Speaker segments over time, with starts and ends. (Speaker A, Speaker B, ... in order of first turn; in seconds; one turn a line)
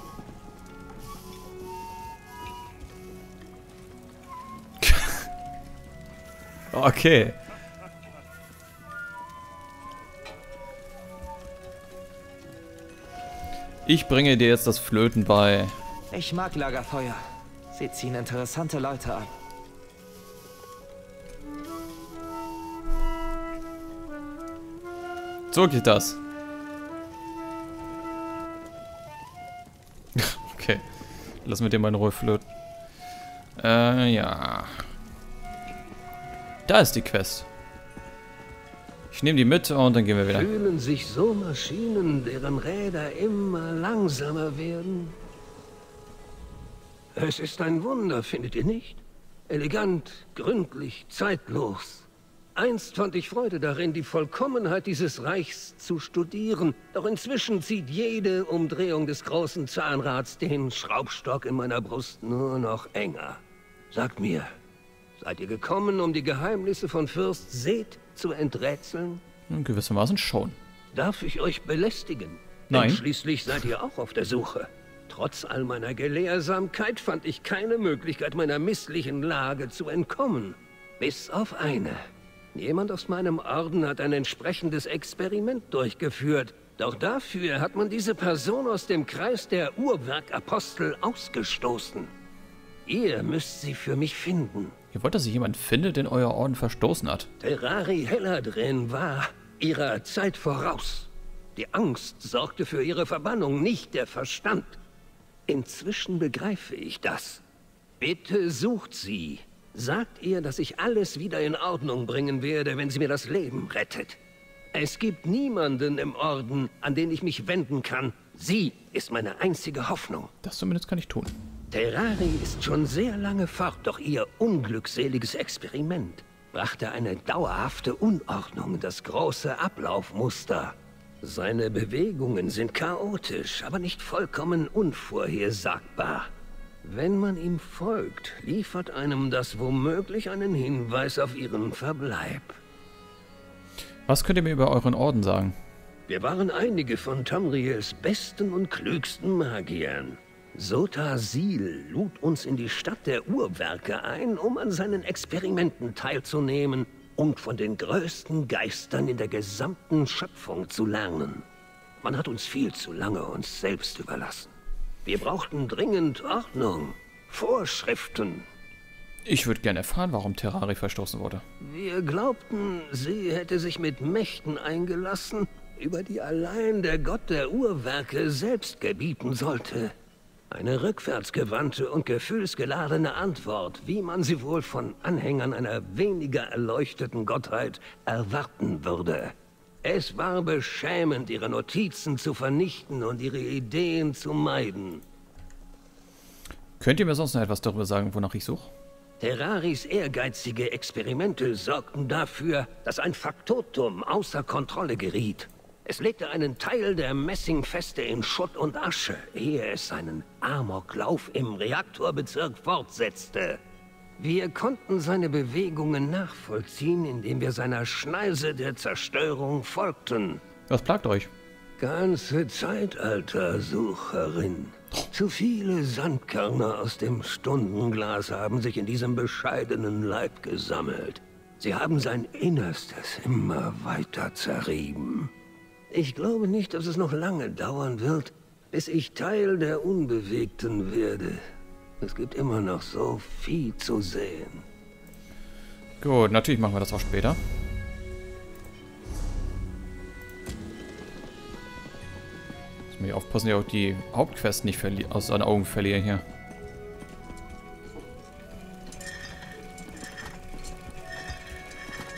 Speaker A: 4.8-5.3
Speaker A: 6.7-7.4
Speaker A: 13.9-15.8
Speaker B: 16.1-17.2
Speaker B: 17.7-19.3
Speaker A: 25.5-26.2
Speaker A: 30.2-30.9
Speaker A: 31.4-32.4
Speaker A: 33.6-34.9
Speaker A: 36.6-37.5
Speaker A: 39.1-40.5
Speaker C: 40.3-45.1
Speaker C: 47.1-64.5
Speaker C: 65.2-69.2
Speaker A: 69.5-70.6
Speaker C: 70.9-82.0
Speaker A: 72.7-73.0
Speaker C: 82.5-92.1
Speaker C: 92.9-94.7
Speaker A: 94.9-97.3
Speaker C: 97.4-104.8
Speaker C: 105.5-107.4
Speaker C: 108.0-114.2
Speaker C: 114.7-120.3
Speaker A: 120.4-121.4
Speaker C: 121.7-136.3
Speaker C: 136.8-142.6
Speaker A: 144.1-145.6
Speaker C: 146.1-161.4
Speaker C: 162.0-164.5
Speaker C: 165.1-168.4
Speaker A: 169.2-171.4
Speaker C: 171.6-179.9
Speaker C: 180.5-195.0
Speaker A: 196.8-198.7
Speaker C: 199.2-213.6
Speaker C: 214.2-220.4
Speaker A: 220.7-221.3
Speaker C: 221.8-235.3
Speaker C: 235.9-241.4
Speaker C: 242.0-244.6
Speaker A: 246.0-247.4
Speaker A: 252.9-256.2